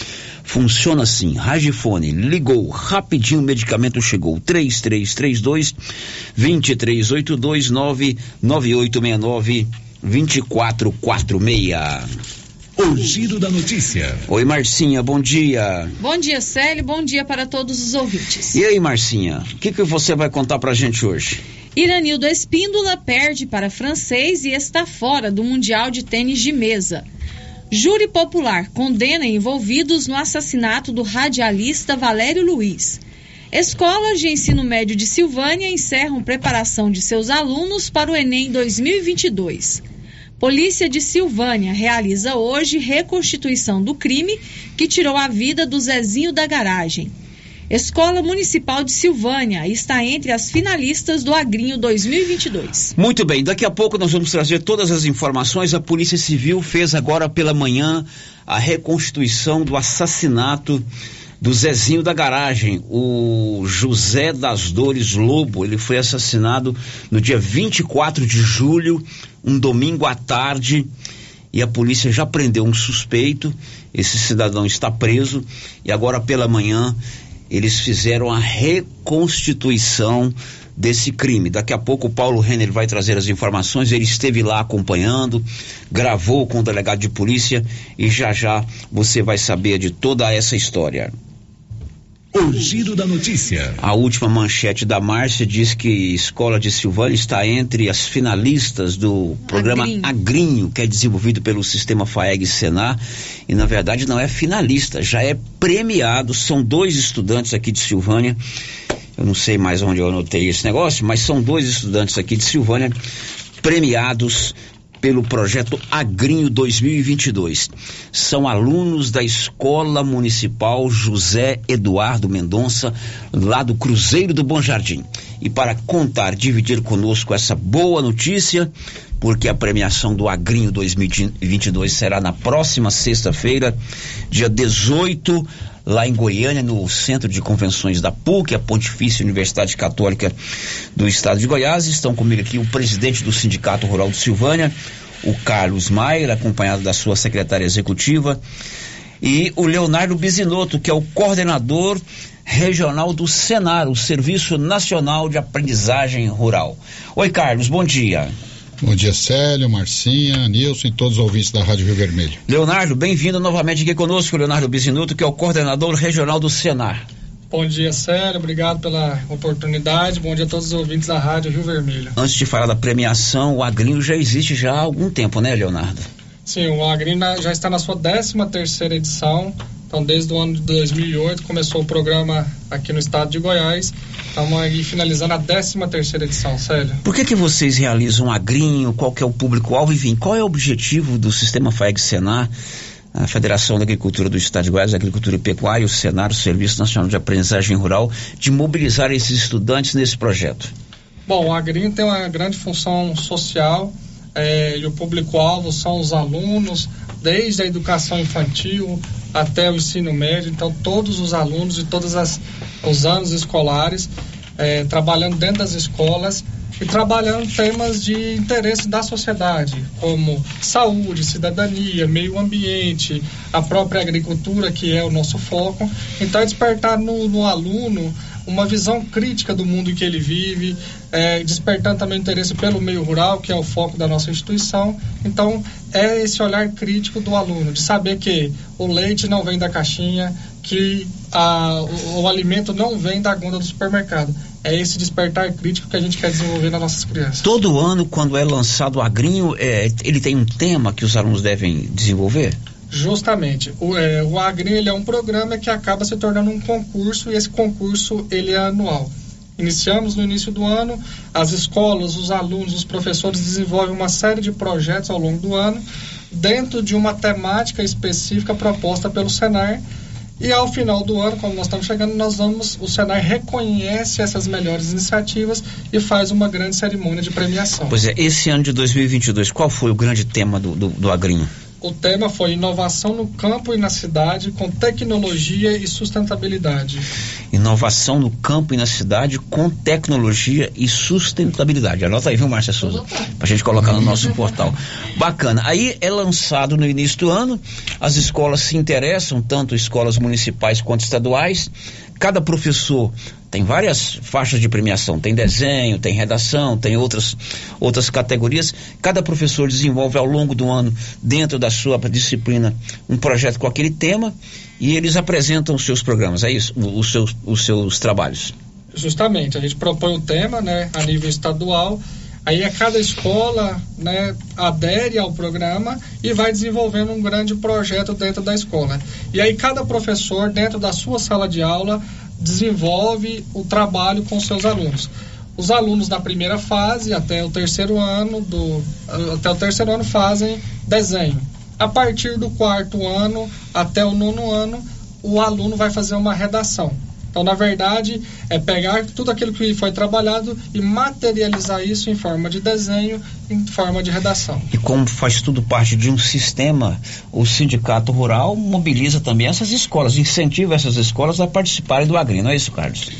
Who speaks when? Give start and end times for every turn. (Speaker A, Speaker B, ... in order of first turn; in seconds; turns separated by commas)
Speaker A: 0.5-5.8, Speaker A: 6.4-12.1, Speaker B: 12.8-14.2, Speaker A: 14.3-15.9, Speaker C: 16.0-18.6, Speaker A: 18.5-21.4, Speaker C: 21.8-27.1, Speaker C: 27.7-33.0, Speaker C: 33.5-39.8, Speaker C: 40.4-47.1, Speaker C: 47.7-52.9, Speaker A: 53.0-60.8, Speaker A: 61.4-70.9, Speaker A: 71.5-77.0, Speaker A: 77.5-91.1, Speaker B: 92.3-93.8, Speaker A: 93.8-108.4, Speaker C: 99.5-100.1, Speaker A: 109.2-112.9, Speaker A: 113.6-128.7, Speaker A: 129.2-133.8, Speaker A: 134.3-140.3, Speaker A: 141.0-148.4, Speaker A: 149.2-158.3, Speaker D: 158.8-162.4, Speaker A: 162.5-167.1, Speaker E: 167.5-172.1, Speaker A: 172.2-176.1, Speaker E: 176.5-187.0, Speaker A: 187.0-192.5, Speaker A: 193.2-200.7, Speaker E: 201.3-247.5, Speaker A: 247.4-252.6, Speaker E: 252.9-269.8, Speaker E: 270.4-278.0, Speaker A: 277.9-281.5, Speaker E: 281.8-287.0, Speaker A: 287.5-318.5, Speaker E: 318.9-354.7, Speaker A: 354.7-363.1